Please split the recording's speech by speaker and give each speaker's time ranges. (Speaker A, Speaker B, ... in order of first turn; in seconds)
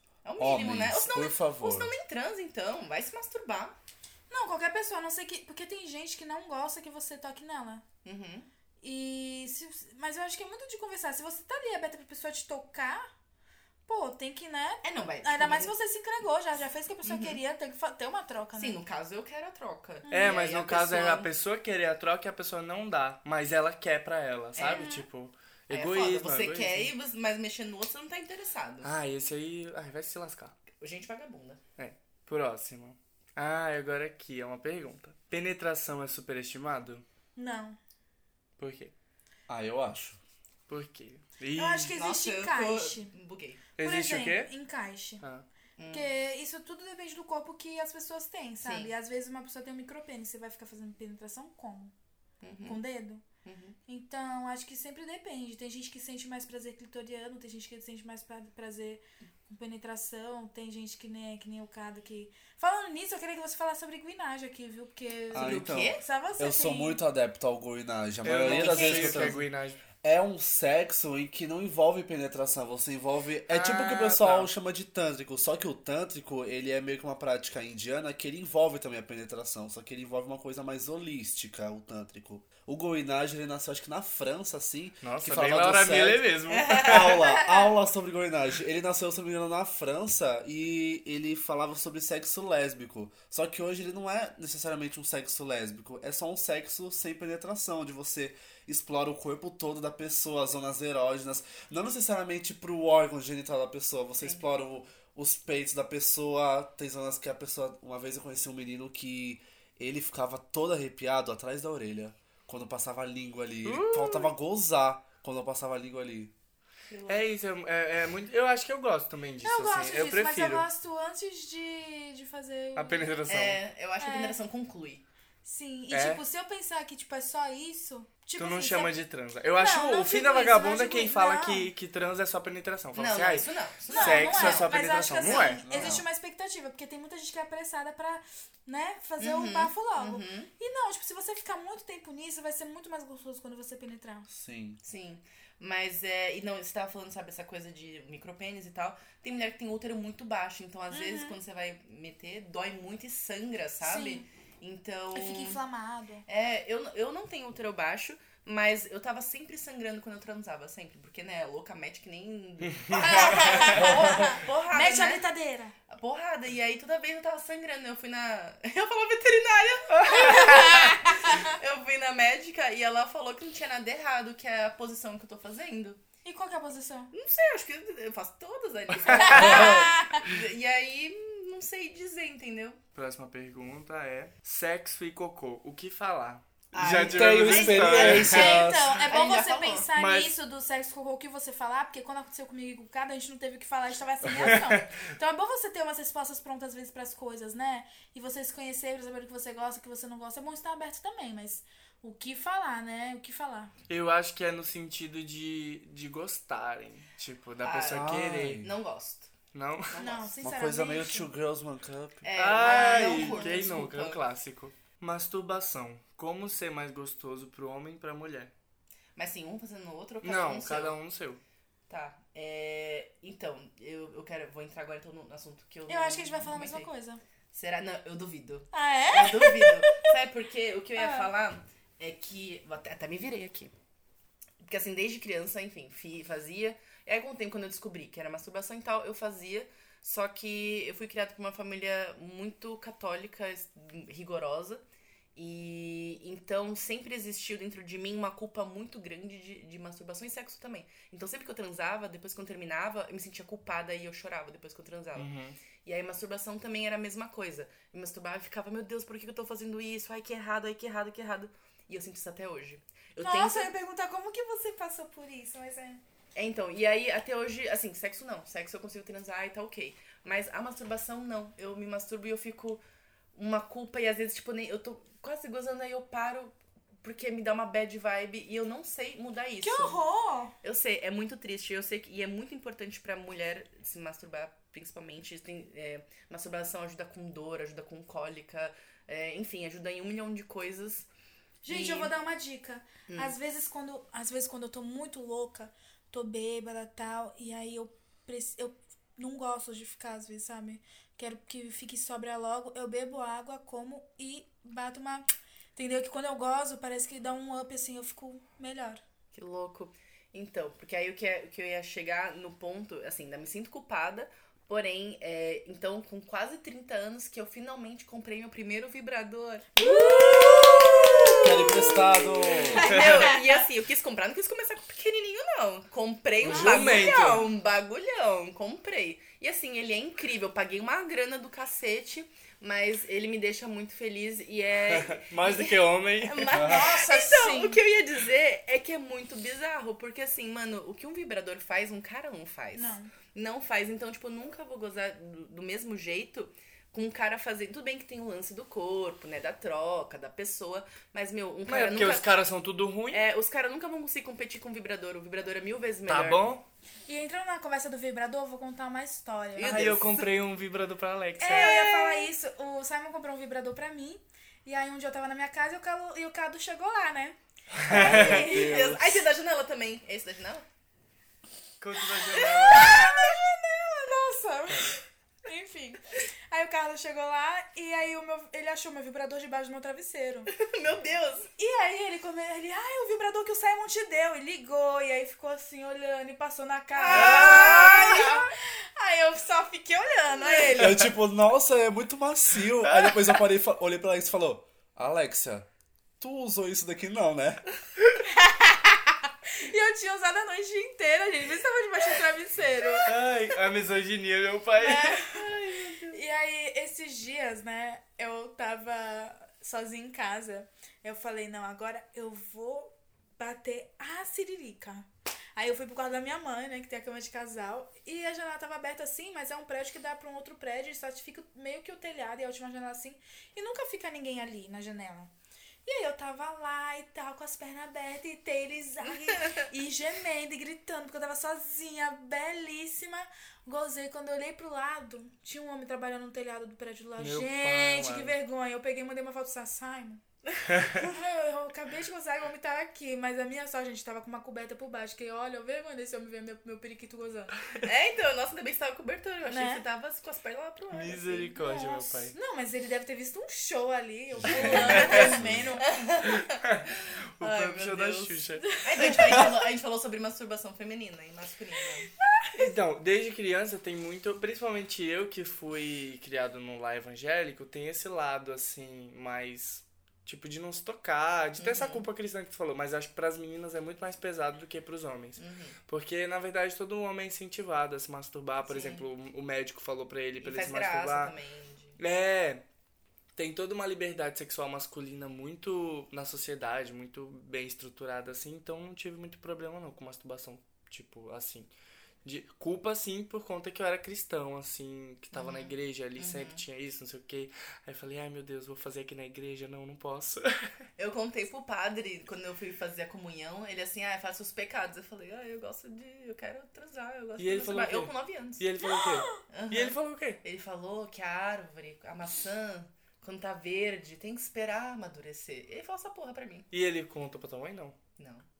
Speaker A: 0.2-3.7, 8.0-8.4, 14.8-15.7, 17.0-17.4, 18.6-21.3, 24.6-24.9, 25.7-28.9, 30.8-31.6, 41.9-43.6, 45.8-46.1, 48.6-48.9, 52.4-52.8, 53.4-53.8, 65.3-66.0, 86.5-87.4, 116.9-117.2, 123.3-125.0, 132.9-136.0, 139.2-140.5, 144.8-155.6, 156.3-165.2, 165.9-176.0, 177.1-182.8, 186.7-189.9, 207.6-209.3, 209.9-210.3, 212.2-214.2, 219.2-220.9, 221.9-226.9, 227.5-233.7, 234.6-244.8, 245.3-255.3, 255.8-263.7, 266.3-272.8, 273.3-280.0, 280.6-291.1, 291.7-292.1, 293.1-293.3, 309.3-352.3, 353.1-356.5, 359.5-360.3, 361.4-362.3, 367.9-370.6, 372.4-373.3, 380.5-381.5, 386.9-388.5, 390.3-390.9, 405.4-406.2, 447.8-451.5, 454.4-462.1, 471.6-472.0, 475.4-475.8, 478.7-479.1, 480.4-482.0, 495.3-496.6, 501.0-508.7, 509.5-516.7, 518.2-518.4
Speaker B: 0.4-1.9, 39.5-40.2, 65.3-69.4, 70.0-116.3, 135.6-136.0, 144.3-144.8, 163.8-164.1, 179.4-179.9, 186.7-189.0, 207.8-208.7, 210.4-212.2, 321.4-322.9, 336.5-336.8, 367.9-368.9, 390.7-395.7, 396.2-397.6, 454.3-455.7
Speaker C: 4.3-7.8, 8.8-13.1, 13.8-18.8, 20.1-20.3, 24.7-25.1, 37.4-37.8, 41.5-43.1, 43.8-45.2, 45.9-51.9, 52.6-53.2, 53.9-67.0, 68.4-69.4, 119.4-123.1, 124.0-124.4, 125.4-128.9, 129.6-131.7, 133.9-144.3, 150.9-151.4, 153.8-154.2, 155.1-156.2, 162.9-165.7, 170.0-171.5, 176.2-177.1, 179.1-180.2, 187.9-203.7, 209.9-211.3, 212.7-213.6, 225.9-227.2, 228.7-230.1, 230.9-231.3, 263.2-266.0, 279.6-280.5, 291.6-309.0, 319.8-323.6, 326.5-327.0, 336.5-337.8, 342.7-343.1, 357.1-359.9, 361.4-367.4, 367.9-368.9, 372.5-380.5, 381.6-391.1, 398.3-403.1, 404.8-405.5, 406.1-425.3, 425.8-447.7, 449.4-449.8, 451.5-455.9, 458.6-459.5, 462.2-462.7, 508.8-509.4
Speaker D: 20.1-26.9, 28.8-30.5, 31.8-37.0, 38.6-38.9, 40.7-42.0, 43.8-44.5, 45.2-45.5, 68.2-69.8, 73.5-74.5, 85.0-87.3, 113.6-114.3, 117.1-120.7, 122.8-123.6, 125.9-126.2, 128.3-135.6, 162.6-163.7, 169.9-171.0, 179.0-179.7, 182.9-188.3, 189.9-190.3, 194.4-194.8, 203.9-208.6, 209.5-210.0, 212.3-218.5, 220.2-221.4, 255.1-255.6, 326.4-327.5, 334.9-336.6, 351.7-353.2, 356.1-356.6, 359.6-361.8, 367.7-369.0, 371.8-372.9, 387.1-388.1, 403.0-405.4, 437.2-438.3, 450.9-452.3, 454.9-455.4, 456.2-459.3, 462.5-481.3, 482.0-482.6, 483.4-491.7, 492.2-500.7, 507.4-510.4, 516.7-518.0